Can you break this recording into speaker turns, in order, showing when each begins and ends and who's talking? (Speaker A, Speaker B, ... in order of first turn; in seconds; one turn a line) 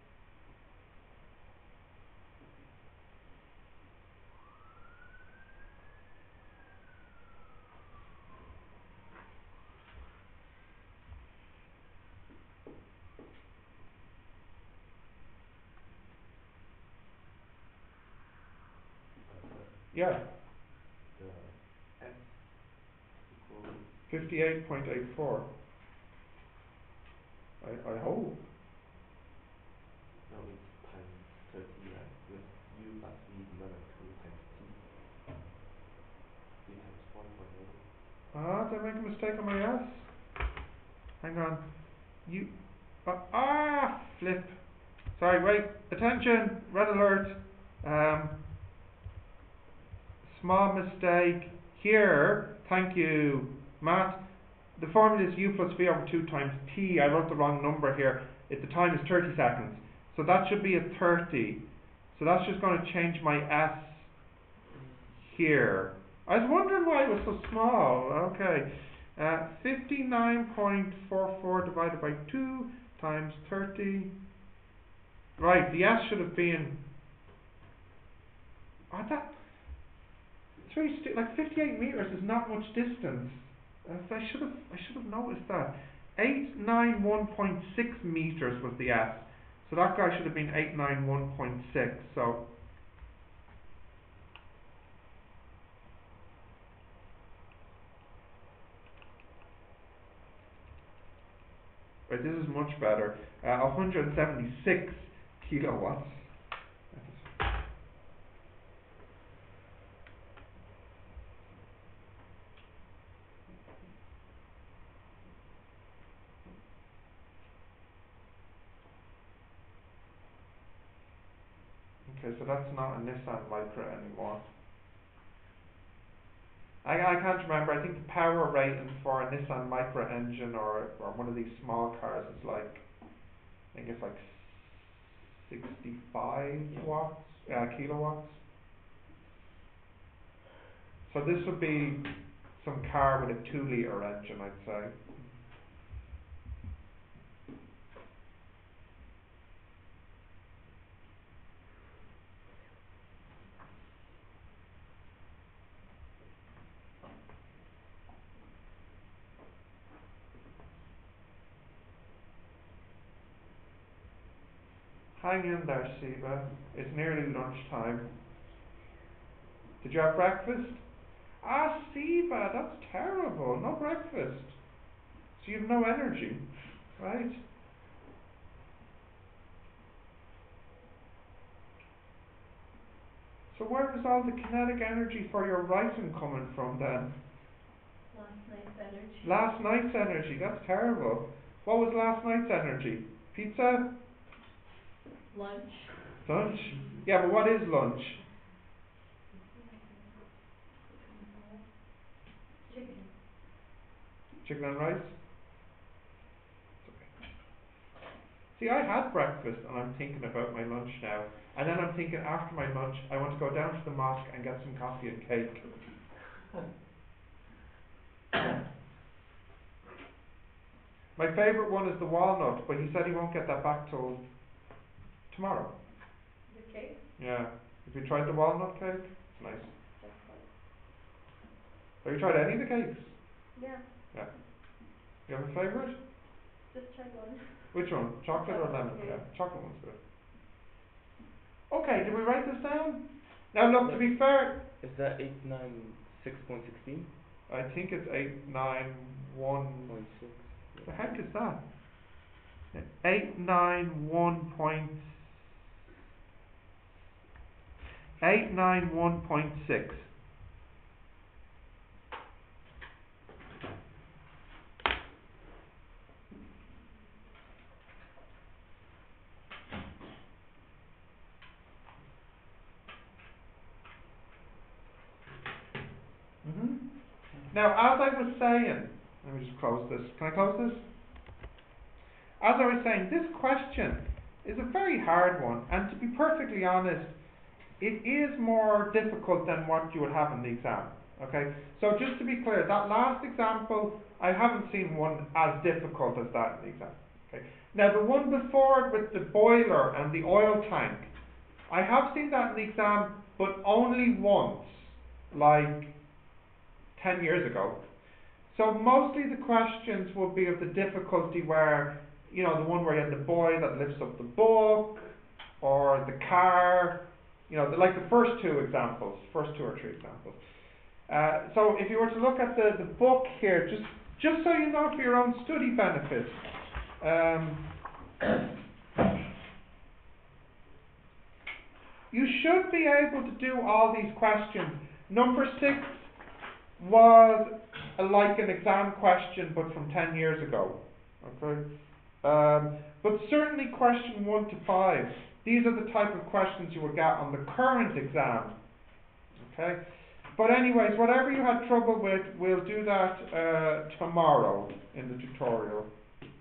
Speaker A: 19.3-19.9
Speaker B: 19.9-20.2
Speaker A: 21.1-24.0
Speaker B: 24.1-25.5
Speaker B: 27.6-28.4
Speaker A: 30.3-34.9
Speaker A: 36.6-37.9
Speaker B: 38.3-40.1
Speaker B: 41.2-41.6
Speaker B: 42.2-42.5
Speaker B: 43.0-44.6
Speaker B: 45.1-48.3
Speaker B: 50.2-54.2
Speaker B: 54.8-64.1
Speaker B: 65.2-74.1
Speaker B: 75.4-76.8
Speaker B: 78.9-79.3
Speaker B: 80.6-92.4
Speaker B: 102.1-106.3
Speaker B: 106.9-107.3
Speaker B: 122.0-124.4
Speaker B: 126.8-132.8
Speaker B: 133.7-138.4
Speaker B: 141.1-142.1
Speaker B: 142.6-144.9
Speaker B: 165.2-168.1
Speaker B: 169.8-170.8
Speaker B: 171.4-174.6
Speaker B: 175.4-176.4
Speaker B: 177.0-177.4
Speaker B: 183.5-187.1
Speaker C: 188.1-189.4
Speaker B: 189.2-193.9
Speaker C: 195.3-195.9
Speaker B: 196.2-198.2
Speaker C: 199.3-200.2
Speaker C: 201.0-201.6
Speaker C: 202.7-203.1
Speaker B: 204.4-205.1
Speaker B: 206.8-207.1
Speaker B: 208.6-215.6
Speaker B: 221.2-224.2
Speaker B: 225.3-225.7
Speaker C: 226.5-227.0
Speaker B: 227.2-229.7
Speaker C: 230.0-230.5
Speaker B: 232.0-233.2
Speaker C: 233.5-233.9
Speaker B: 235.3-236.0
Speaker C: 236.6-237.8
Speaker B: 237.7-240.0
Speaker C: 238.3-239.2
Speaker B: 241.7-244.6
Speaker D: 243.8-247.1
Speaker B: 247.5-249.9
Speaker D: 249.9-251.2
Speaker B: 250.8-251.6
Speaker B: 252.7-255.5
Speaker B: 258.2-260.1
Speaker B: 276.4-276.8
Speaker B: 277.5-280.8
Speaker B: 282.4-287.1
Speaker B: 287.8-301.1
Speaker B: 301.7-305.9
Speaker B: 306.9-307.8
Speaker B: 308.5-320.4
Speaker B: 321.1-326.4
Speaker B: 327.0-327.6
Speaker B: 332.1-336.1
Speaker B: 336.8-341.7
Speaker B: 342.2-348.6
Speaker B: 349.4-349.8
Speaker B: 350.3-355.9